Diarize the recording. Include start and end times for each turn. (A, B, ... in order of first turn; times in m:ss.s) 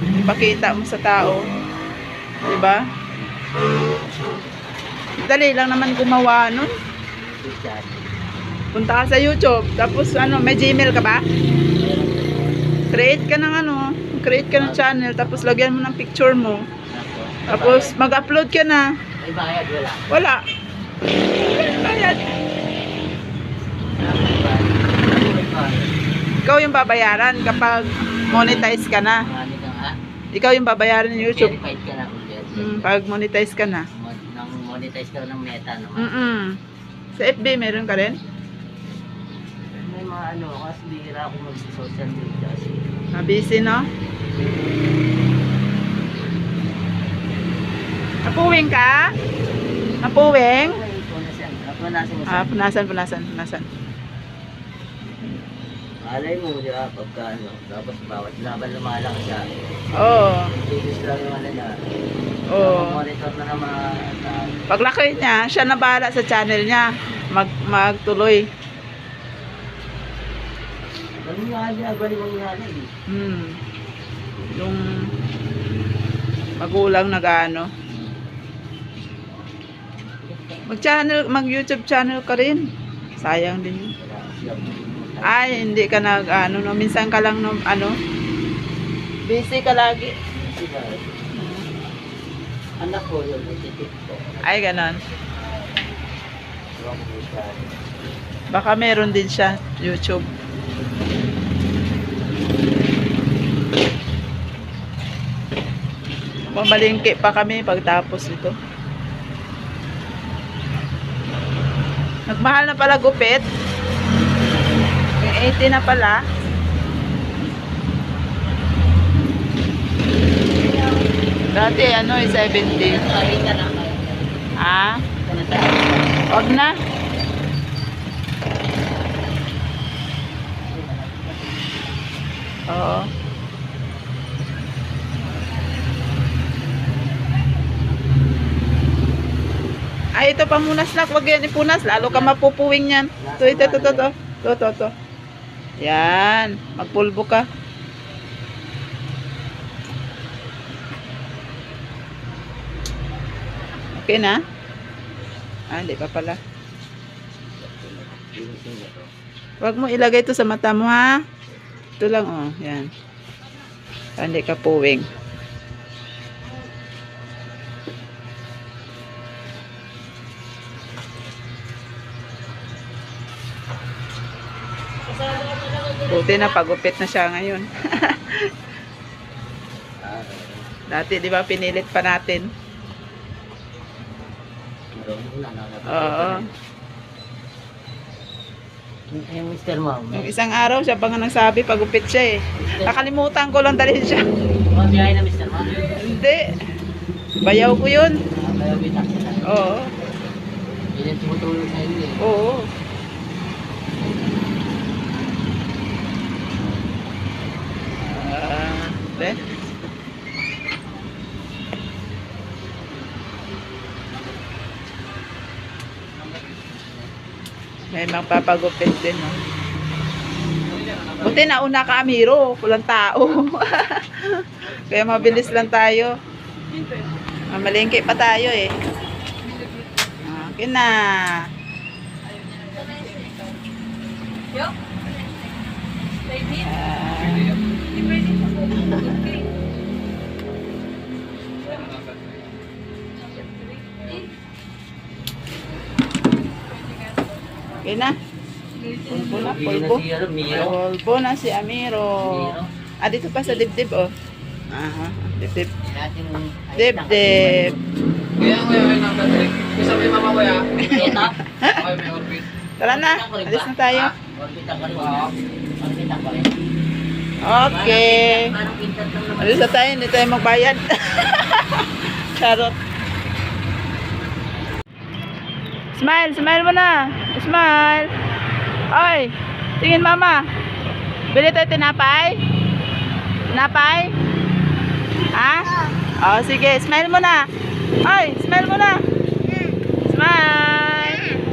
0:00.2-0:01.4 A
0:02.4-0:02.9 A
0:05.2-0:06.7 A
0:07.1-0:08.1 B
0:08.7-0:11.2 A
0:11.7-0:12.4 B
0:12.9-0:16.6 A
0:14.5-0:15.5 B
0:16.9-0:18.3 B
0:17.5-0:18.9 A
0:19.2-0:20.1 B
0:20.1-0:20.4 A
0:21.4-0:22.0 B
0:21.4-0:22.4 A
0:24.0-0:25.9 B
0:26.4-0:29.2 A
0:28.3-0:29.9 B
0:30.3-0:31.5 A
0:31.1-0:32.9 B
0:32.5-0:33.8 A
0:33.9-0:36.4 B
0:36.0-0:36.6 A
0:37.2-0:38.2 A
0:39.7-0:42.8 B
0:43.1-0:43.9 A
0:44.3-0:45.0 B
0:48.2-0:49.1 A
0:50.0-0:50.8 A
0:50.6-0:52.5 B
0:52.3-0:53.7 A
0:56.0-0:59.4 B
1:00.0-1:00.5 A
1:00.3-1:01.7 B
1:02.5-1:03.0 A
1:02.6-1:04.5 B
1:04.7-1:08.4 A
1:11.2-1:12.9 B
1:13.1-1:13.6 A
1:14.6-1:15.1 A
1:16.6-1:17.7 A
1:17.9-1:18.3 B
1:20.2-1:20.8 B
1:20.7-1:22.6 A
1:23.2-1:23.9 A
1:24.0-1:25.7 B
1:25.2-1:27.9 A
1:29.3-1:30.1 A
1:30.3-1:31.1 B
1:31.3-1:31.6 A
1:32.8-1:34.9 B
1:34.4-1:35.0 A
1:36.8-1:37.9 B
1:38.5-1:40.2 A
1:46.5-1:48.5 A
1:52.3-1:53.4 A
1:55.2-1:56.2 A
2:00.6-2:01.1 B
2:01.5-2:03.0 A
2:02.6-2:04.5 B
2:04.6-2:05.0 A
2:05.2-2:06.3 B
2:06.3-2:06.7 A
2:10.6-2:11.8 B
2:12.7-2:13.1 A
2:20.2-2:24.9 A
2:21.9-2:22.4 B
2:23.2-2:24.1 B
2:25.8-2:27.4 A
2:34.0-2:34.4 A
2:35.7-2:36.4 A
2:37.5-2:39.1 B
2:39.6-2:41.2 A
2:42.0-2:42.9 A
2:44.2-2:45.0 A
2:55.1-2:56.6 B
2:56.1-2:58.4 A
3:00.0-3:00.6 B
3:00.9-3:02.5 A
3:04.9-3:06.5 B
3:05.9-3:06.4 A
3:09.1-3:10.3 B
3:10.1-3:14.2 A
3:12.6-3:13.1 B
3:14.7-3:16.0 B
3:16.0-3:16.4 A
3:17.4-3:18.2 A
3:18.3-3:20.3 B
3:19.5-3:19.9 A
3:20.9-3:22.2 B
3:22.2-3:22.7 A
3:28.0-3:29.4 A
3:37.9-3:39.4 A
3:41.2-3:46.1 A
3:47.5-3:48.7 A
3:50.2-3:51.4 A
3:56.5-3:57.6 A
3:58.8-3:59.2 A
4:07.8-4:08.2 A
4:08.9-4:14.1 A
4:09.1-4:10.8 B
4:12.2-4:12.7 B
4:14.7-4:15.7 A
4:15.8-4:17.8 B
4:16.8-4:17.7 A
4:18.4-4:20.8 C
4:20.8-4:22.0 A
4:20.8-4:21.4 B
4:21.8-4:22.5 C
4:22.8-4:24.1 A
4:22.8-4:26.6 B
4:27.4-4:28.5 A
4:27.6-4:29.8 B
4:29.4-4:32.8 A
4:36.0-4:38.1 A
4:38.9-4:40.4 A
4:41.3-4:42.4 A
4:43.5-4:44.1 A
4:45.3-4:47.4 A
4:48.0-4:49.0 A
4:50.0-4:51.4 A